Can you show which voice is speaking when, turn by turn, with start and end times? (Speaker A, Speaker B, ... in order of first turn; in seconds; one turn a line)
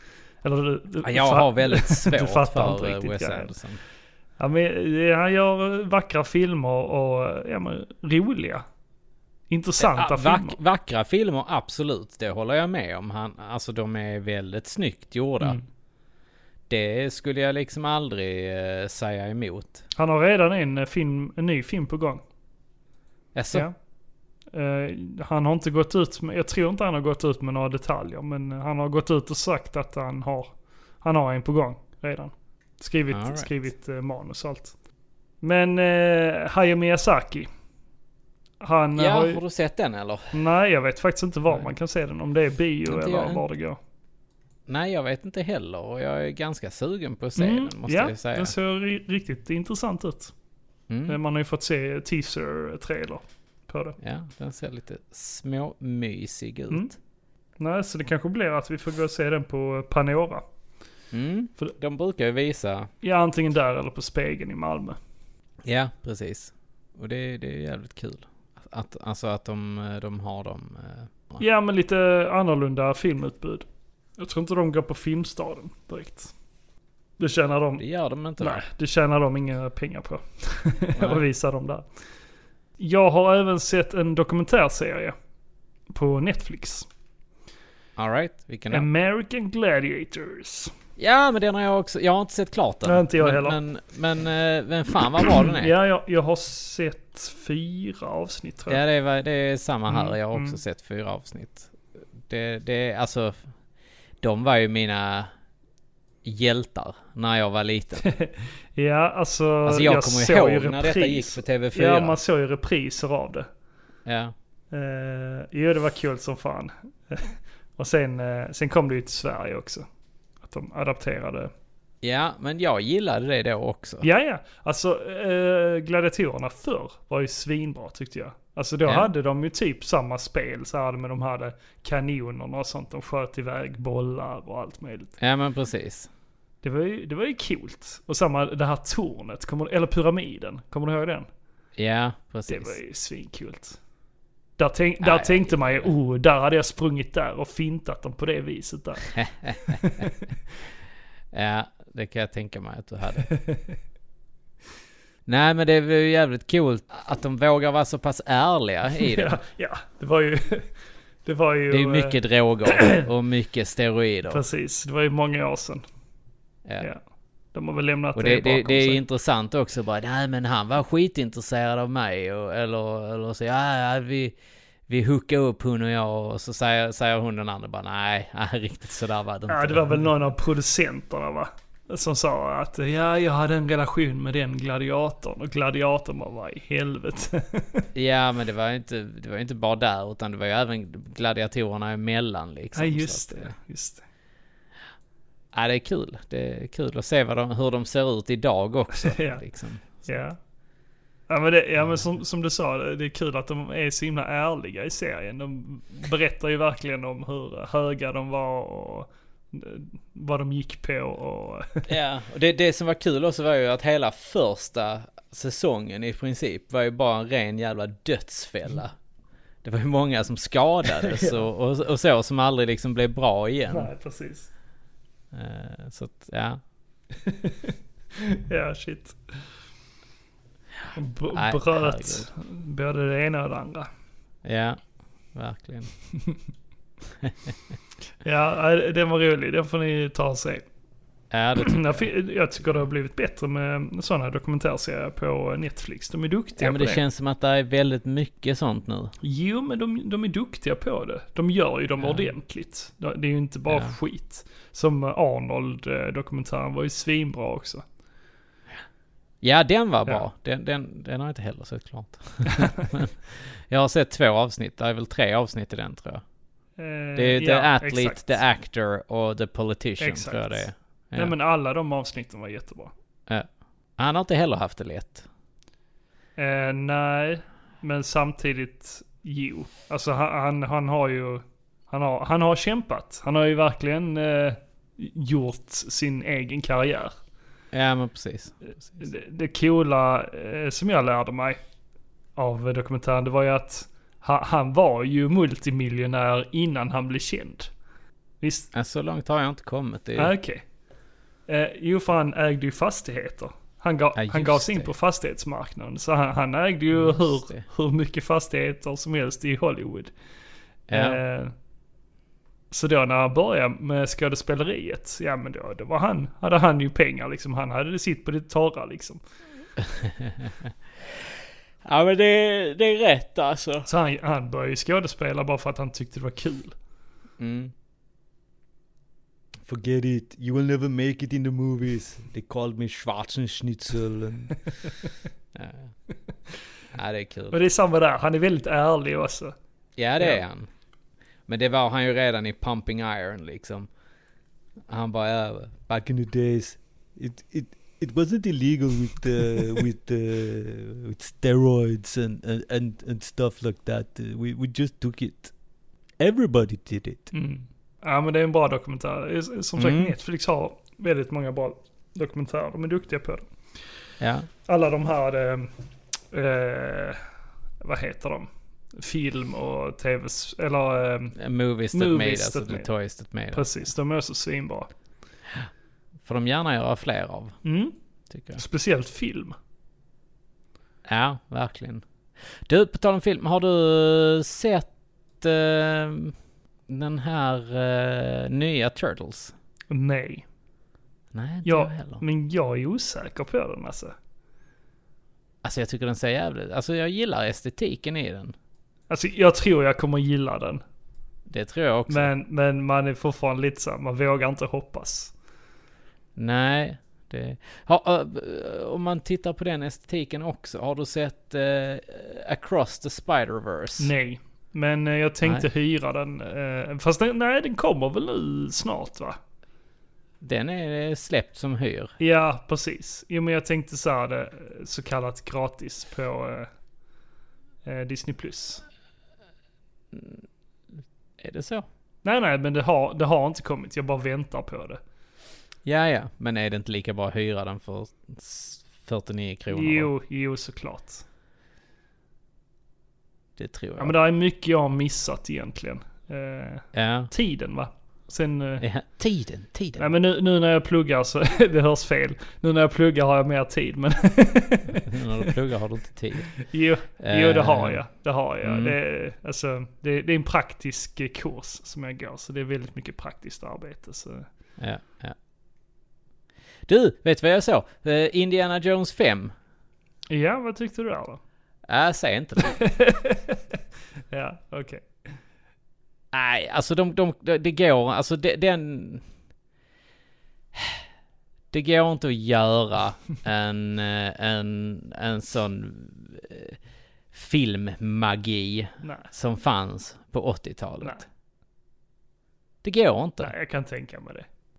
Speaker A: 0.4-3.5
Speaker B: 1.0-3.8
Speaker A: 4.4-8.6
Speaker A: 9.5-10.6
Speaker B: 9.8-15.6
Speaker B: 16.7-19.8
Speaker A: 19.9-22.2
Speaker B: 23.3-23.7
Speaker A: 24.5-34.7
Speaker B: 33.1-33.5
Speaker A: 35.4-37.5
Speaker A: 38.6-39.4
Speaker B: 39.0-40.4
Speaker A: 40.3-43.8
Speaker B: 42.9-43.4
Speaker B: 44.7-48.5
Speaker A: 47.4-50.3
Speaker B: 50.9-51.2
Speaker A: 51.1-54.0
Speaker B: 54.0-57.0
Speaker A: 57.6-60.4
Speaker B: 61.1-62.9
Speaker A: 63.0-65.0
Speaker B: 65.6-71.4
Speaker A: 71.4-73.7
Speaker A: 74.2-76.3
Speaker A: 77.2-77.8
Speaker B: 77.8-78.6
Speaker A: 78.4-81.8
Speaker B: 81.0-81.2
Speaker A: 82.8-85.1
Speaker A: 85.9-86.9
Speaker B: 88.0-88.9
Speaker A: 88.7-90.7
Speaker B: 91.0-95.7
Speaker A: 92.8-93.6
Speaker A: 95.4-98.8
Speaker B: 98.7-103.4
Speaker A: 99.9-100.6
Speaker B: 104.2-105.3
Speaker B: 106.2-108.1
Speaker A: 108.0-113.5
Speaker B: 109.7-112.2
Speaker B: 114.0-114.3
Speaker A: 114.7-119.9
Speaker A: 120.4-121.5
Speaker B: 122.0-124.0
Speaker A: 124.0-135.2
Speaker B: 128.8-129.1
Speaker B: 135.2-136.1
Speaker A: 136.6-141.3
Speaker B: 141.8-142.8
Speaker A: 142.5-143.8
Speaker A: 144.6-149.1
Speaker B: 145.0-145.9
Speaker B: 149.1-149.8
Speaker A: 149.6-150.2
Speaker B: 151.3-153.3
Speaker A: 153.3-153.8
Speaker B: 155.2-159.3
Speaker A: 159.1-160.7
Speaker A: 161.2-163.0
Speaker B: 161.7-164.4
Speaker A: 164.3-165.8
Speaker A: 167.5-169.0
Speaker B: 168.1-174.3
Speaker B: 174.9-180.0
Speaker A: 179.5-187.8
Speaker B: 187.9-193.5
Speaker A: 192.7-194.0
Speaker B: 195.5-200.0
Speaker A: 198.9-199.4
Speaker A: 200.0-200.4
Speaker A: 201.3-211.9
Speaker B: 211.9-218.9
Speaker B: 219.6-223.9
Speaker A: 221.0-221.4
Speaker A: 223.7-224.5
Speaker B: 225.3-226.6
Speaker A: 227.2-229.5
Speaker A: 230.9-233.9
Speaker B: 231.3-232.3
Speaker B: 234.4-234.8
Speaker B: 235.3-235.9
Speaker B: 237.2-237.5
Speaker A: 238.2-240.6
Speaker B: 241.3-242.0
Speaker A: 241.6-247.0
Speaker B: 246.6-249.1
Speaker A: 249.2-257.8
Speaker B: 252.0-252.3
Speaker B: 253.7-253.9
Speaker B: 259.4-263.1
Speaker B: 263.7-266.2
Speaker A: 266.8-268.4
Speaker B: 267.1-271.3
Speaker A: 270.0-272.9
Speaker B: 273.3-275.3
Speaker A: 276.4-287.1
Speaker B: 287.7-289.0
Speaker A: 289.0-291.6
Speaker A: 292.4-297.7
Speaker A: 298.4-298.7
Speaker B: 298.7-300.3
Speaker A: 300.2-300.6
Speaker A: 301.5-310.1
Speaker B: 304.1-304.9
Speaker B: 306.9-307.6
Speaker B: 310.9-311.2
Speaker A: 310.9-311.5
Speaker A: 312.7-319.2
Speaker B: 319.9-320.7
Speaker B: 321.8-323.9
Speaker A: 323.9-326.7
Speaker B: 327.4-327.7
Speaker C: 329.6-334.7
Speaker B: 335.5-335.9
Speaker B: 336.9-337.6
Speaker A: 337.5-339.5
Speaker B: 340.0-340.7
Speaker B: 341.5-343.9
Speaker B: 344.9-345.9
Speaker C: 345.9-355.5
Speaker C: 356.2-357.3
Speaker A: 357.3-363.5
Speaker B: 359.8-360.1
Speaker B: 364.2-364.5
Speaker A: 364.7-365.7
Speaker A: 366.3-367.2
Speaker A: 367.8-371.4
Speaker B: 371.4-373.7
Speaker A: 371.9-372.9
Speaker A: 373.5-374.9
Speaker B: 376.2-377.6
Speaker A: 377.6-377.9
Speaker B: 378.3-378.6
Speaker A: 378.5-379.5
Speaker B: 381.0-382.0
Speaker B: 382.6-384.9
Speaker B: 385.4-386.3
Speaker B: 386.9-389.5
Speaker A: 389.9-390.4
Speaker B: 391.3-392.2
Speaker A: 391.6-394.1
Speaker B: 395.6-398.5
Speaker A: 399.1-400.8
Speaker B: 401.5-402.3
Speaker A: 402.1-405.3
Speaker B: 406.4-414.1
Speaker A: 414.0-419.4
Speaker B: 420.4-422.1
Speaker A: 422.2-426.7
Speaker A: 427.8-428.8
Speaker B: 430.1-430.4
Speaker B: 431.4-431.9
Speaker A: 432.2-435.0
Speaker B: 435.8-440.1
Speaker A: 439.7-441.2
Speaker B: 443.6-444.1
Speaker A: 444.0-448.8
Speaker B: 446.9-447.3
Speaker B: 448.8-450.1
Speaker A: 450.0-455.5
Speaker B: 455.0-456.5
Speaker A: 456.5-464.5
Speaker B: 457.2-458.0
Speaker B: 458.6-458.9
Speaker B: 464.8-465.4
Speaker B: 466.9-469.5
Speaker A: 470.3-471.4
Speaker B: 471.9-472.8
Speaker A: 472.7-473.6
Speaker A: 474.3-475.3
Speaker B: 476.3-479.2
Speaker B: 480.7-481.0
Speaker B: 481.7-486.8
Speaker B: 487.3-491.2
Speaker A: 489.0-489.3
Speaker B: 492.8-493.5
Speaker A: 493.4-494.4